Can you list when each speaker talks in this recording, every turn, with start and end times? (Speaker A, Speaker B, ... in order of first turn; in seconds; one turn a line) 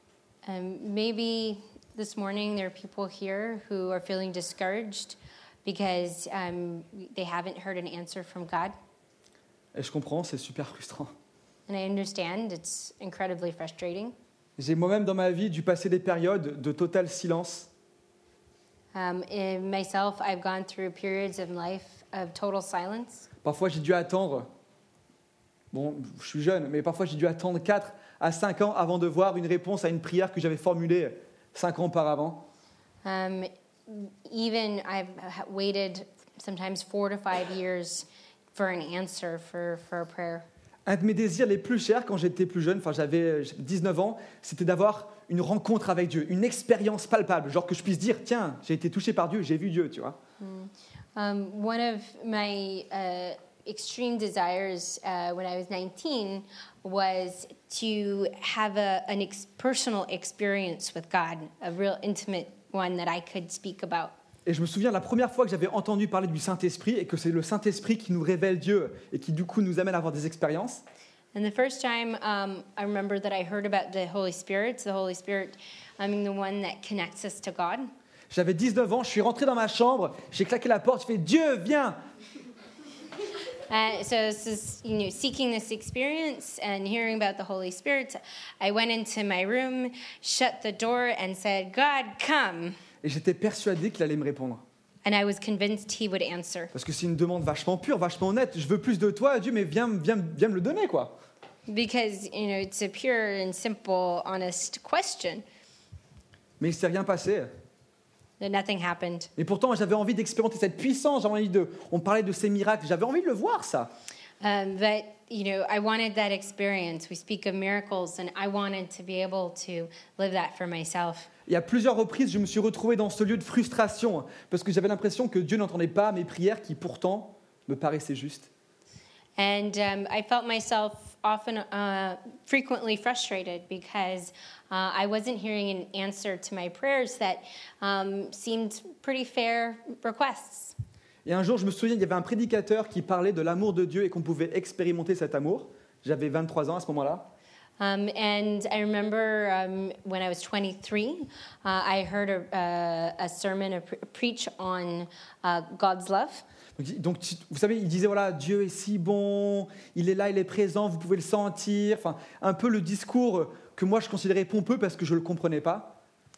Speaker A: 0.5-8.8
Speaker B: 9.7-11.1
Speaker A: 11.7-14.2
Speaker B: 14.6-17.7
Speaker A: 18.9-23.3
Speaker B: 23.4-24.5
Speaker B: 25.7-32.5
Speaker A: 33.0-40.5
Speaker B: 40.9-50.2
Speaker A: 50.4-64.2
Speaker B: 64.5-70.8
Speaker A: 71.3-77.9
Speaker B: 78.3-82.0
Speaker A: 83.7-92.8
Speaker B: 93.0-94.6
Speaker A: 95.0-96.7
Speaker B: 96.7-101.2
Speaker A: 101.7-105.4
Speaker B: 106.6-107.5
Speaker A: 108.4-109.3
Speaker B: 109.4-113.9
Speaker A: 114.4-121.3
Speaker B: 121.5-128.5
Speaker A: 129.4-140.8
Speaker B: 141.2-147.3
Speaker A: 147.8-156.4
Speaker B: 156.8-166.0